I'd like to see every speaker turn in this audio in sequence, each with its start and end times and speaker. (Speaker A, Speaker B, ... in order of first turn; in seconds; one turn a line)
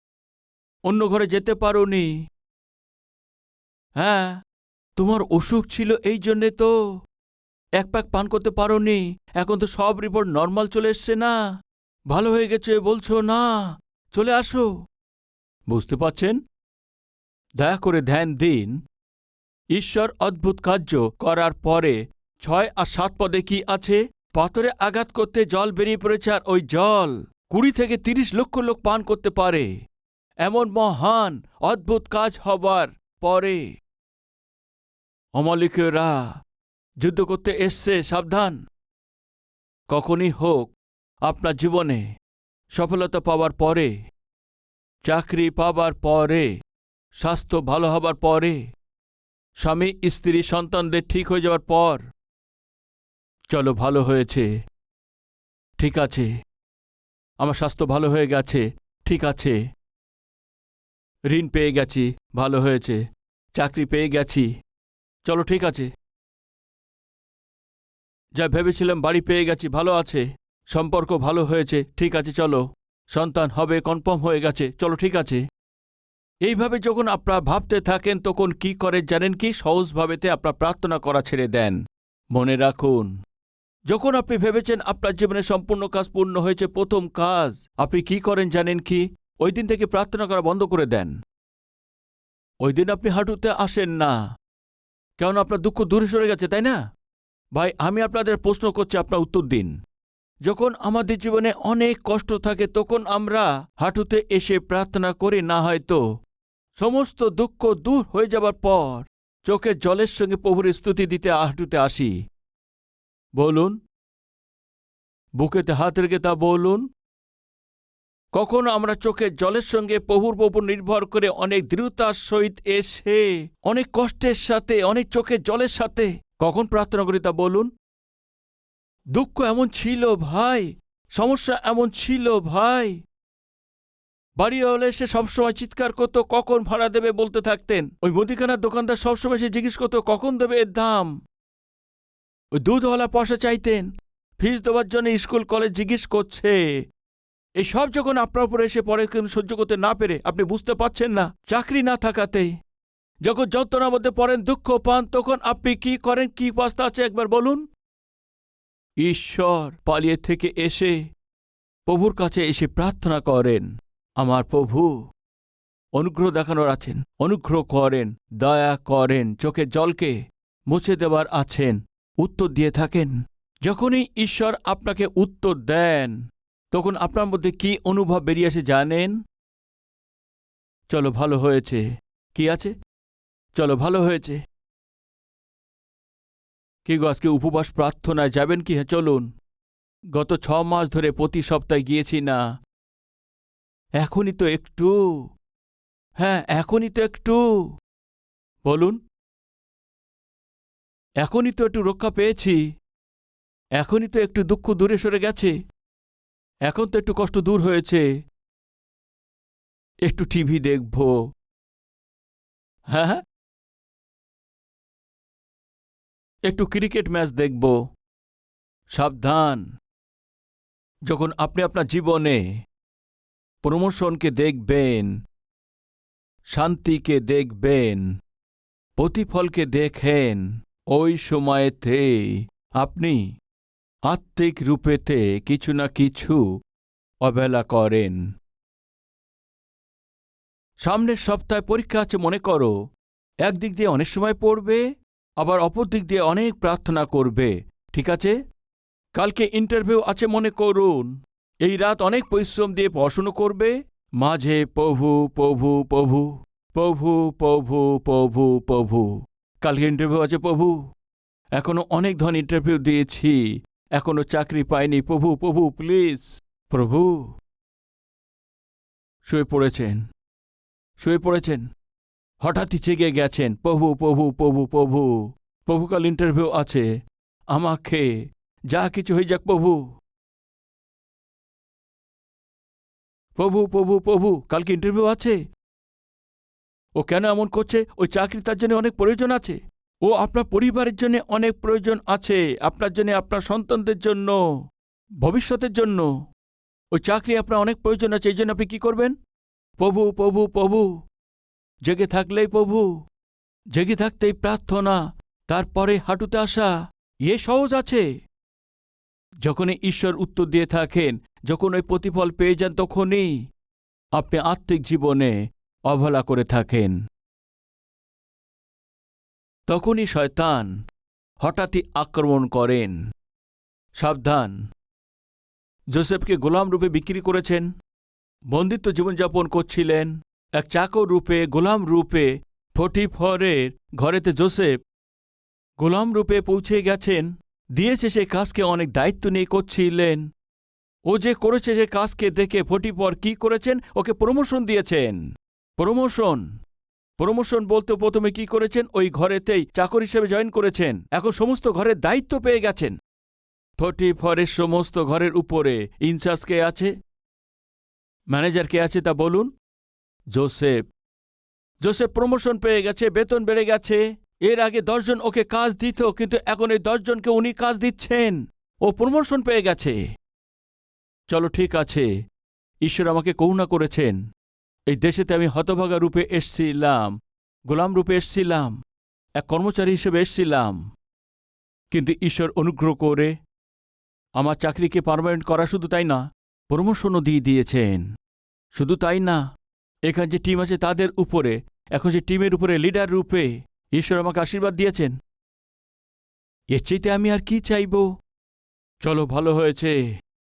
Speaker A: 0.9-2.1
Speaker A: 4.0-4.4
Speaker A: 5.0-6.7
Speaker A: 7.8-11.4
Speaker A: 12.1-14.7
Speaker A: 15.7-16.4
Speaker A: 17.6-18.8
Speaker A: 19.8-29.7
Speaker A: 30.4-33.6
Speaker A: 35.4-36.2
Speaker A: 37.0-38.5
Speaker A: 39.9-40.7
Speaker A: 41.2-42.0
Speaker A: 42.7-43.9
Speaker A: 45.0-46.5
Speaker A: 47.2-48.6
Speaker A: 49.6-52.0
Speaker A: 53.5-54.5
Speaker A: 55.8-56.3
Speaker A: 57.4-59.6
Speaker A: 61.3-63.0
Speaker A: 63.5-64.5
Speaker A: 65.2-65.9
Speaker A: 68.4-75.4
Speaker A: 76.5-81.8
Speaker A: 82.3-83.1
Speaker A: 83.9-91.1
Speaker A: 92.6-94.2
Speaker A: 95.2-96.8
Speaker A: 97.5-99.7
Speaker A: 100.5-106.0
Speaker A: 106.8-112.1
Speaker A: 113.4-113.8
Speaker A: 115.4-116.8
Speaker A: 118.3-127.7
Speaker A: 129.1-133.0
Speaker A: 134.4-141.1
Speaker A: 142.6-146.6
Speaker A: 147.6-152.5
Speaker A: 153.2-157.6
Speaker A: 159.0-161.0
Speaker A: 161.9-163.7
Speaker A: 164.2-164.9
Speaker A: 166.0-170.2
Speaker A: 170.7-176.2
Speaker A: 176.7-179.2
Speaker A: 180.9-181.8
Speaker A: 182.3-182.7
Speaker A: 183.5-184.4
Speaker A: 186.8-189.3
Speaker A: 190.1-192.4
Speaker A: 194.0-194.9
Speaker A: 196.2-197.4
Speaker A: 198.6-199.0
Speaker A: 201.2-202.6
Speaker A: 203.8-205.5
Speaker A: 206.7-208.0
Speaker A: 210.1-211.1
Speaker A: 212.9-213.2
Speaker A: 216.5-217.8
Speaker A: 218.9-219.6
Speaker A: 221.1-222.4
Speaker A: 223.6-225.1
Speaker A: 226.5-228.0
Speaker A: 229.0-233.2
Speaker A: 234.1-236.4
Speaker A: 237.2-238.2
Speaker A: 240.8-242.7
Speaker A: 243.5-244.8
Speaker A: 245.4-248.3
Speaker A: 249.1-251.1
Speaker A: 251.6-259.1
Speaker A: 259.6-260.8
Speaker A: 261.6-263.4
Speaker A: 264.0-267.2
Speaker A: 269.2-270.0
Speaker A: 271.0-271.6
Speaker A: 272.4-275.1
Speaker A: 275.7-276.8
Speaker A: 277.5-278.1
Speaker A: 278.7-279.8
Speaker A: 283.4-285.4
Speaker A: 287.0-294.4
Speaker A: 295.2-296.1
Speaker A: 296.9-299.1
Speaker A: 299.8-300.9
Speaker A: 301.9-302.9
Speaker A: 303.8-305.0
Speaker A: 305.5-306.7
Speaker A: 307.3-308.0
Speaker A: 309.4-313.3
Speaker A: 314.1-315.3
Speaker A: 315.9-317.0
Speaker A: 319.7-320.7
Speaker A: 321.4-323.0
Speaker A: 324.0-324.5
Speaker A: 325.9-327.7
Speaker A: 328.5-334.7
Speaker A: 335.8-340.2
Speaker A: 341.1-345.2
Speaker A: 345.8-346.4
Speaker A: 347.2-352.9
Speaker A: 353.8-356.9
Speaker A: 358.3-359.5
Speaker A: 360.3-360.8
Speaker A: 361.8-370.0
Speaker A: 371.3-372.1
Speaker A: 372.8-374.2
Speaker A: 374.9-377.1
Speaker A: 377.7-378.8
Speaker A: 379.4-380.8
Speaker A: 381.9-383.3
Speaker A: 384.4-388.0
Speaker A: 388.7-389.4
Speaker A: 390.1-395.1
Speaker A: 396.7-398.1
Speaker A: 399.0-400.0